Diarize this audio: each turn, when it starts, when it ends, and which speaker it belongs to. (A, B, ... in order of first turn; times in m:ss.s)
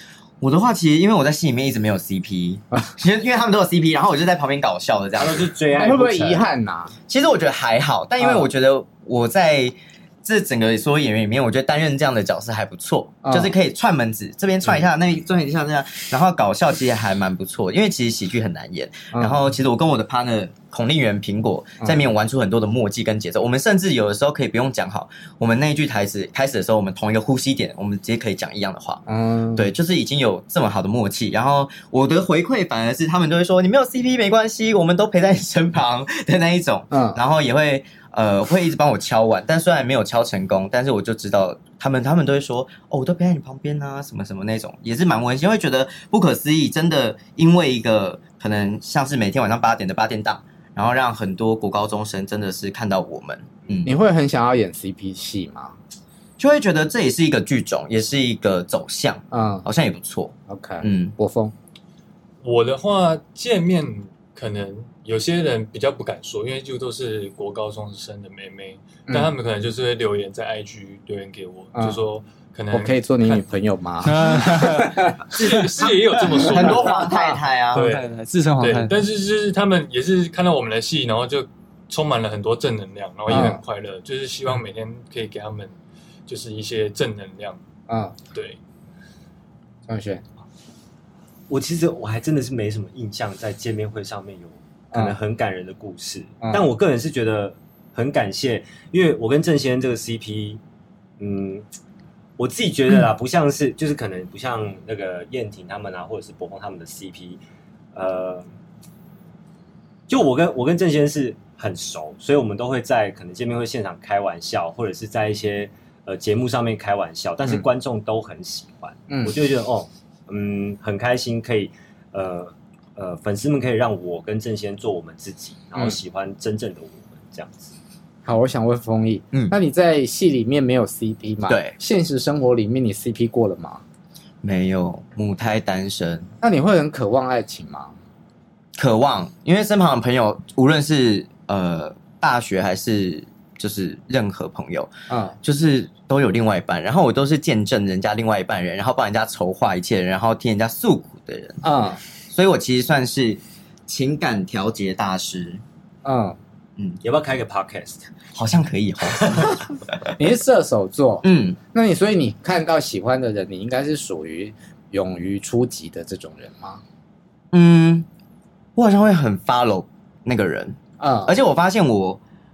0:00.4-0:05.5 A
0:05.2-0:06.5 B
0:05.7-0:06.9 C
0:07.1-0:29.0 A
0:08.2-0:08.5 C
0:13.2-0:13.6 C
0:19.1-0:19.5 C
0:29.1-0:29.7 C
0:29.6-0:53.9 A
0:36.9-0:37.2 C
0:53.8-0:55.8 C
0:56.4-1:01.1 A
0:59.3-0:59.7 C
1:00.5-1:01.5 C
1:02.4-1:13.4 D
1:09.1-1:09.3 C
1:11.8-1:12.0 C
1:12.7-1:15.2 C
1:14.0-1:15.4 E
1:15.3-1:17.1 D
1:15.4-1:17.8 A
1:16.4-1:17.4 C
1:17.7-1:18.1 D
1:17.7-1:19.0 E
1:18.6-1:25.8 D
1:23.3-1:23.6 C
1:26.3-1:27.6 D
1:27.9-1:28.2 C
1:28.3-1:28.6 D
1:29.9-1:30.2 C
1:31.5-1:40.6 B
1:41.2-1:41.7 B
1:42.4-1:47.4 B
1:47.9-1:48.5 B
1:50.1-2:07.7 B
1:59.1-1:59.4 C
2:08.2-2:13.8 C
2:11.5-2:11.8 A
2:14.4-2:16.3 A
2:16.4-2:18.0 C
2:18.8-2:24.9 A
2:25.1-2:25.4 C
2:25.4-2:31.6 A
2:31.6-2:32.0 C
2:32.3-2:35.6 A
2:36.0-2:36.4 C
2:37.0-2:38.1 B
2:38.3-2:39.8 A
2:40.2-2:46.8 C
2:41.2-2:41.6 A
2:47.5-2:48.1 A
2:48.8-2:52.2 A
2:51.0-2:51.4 C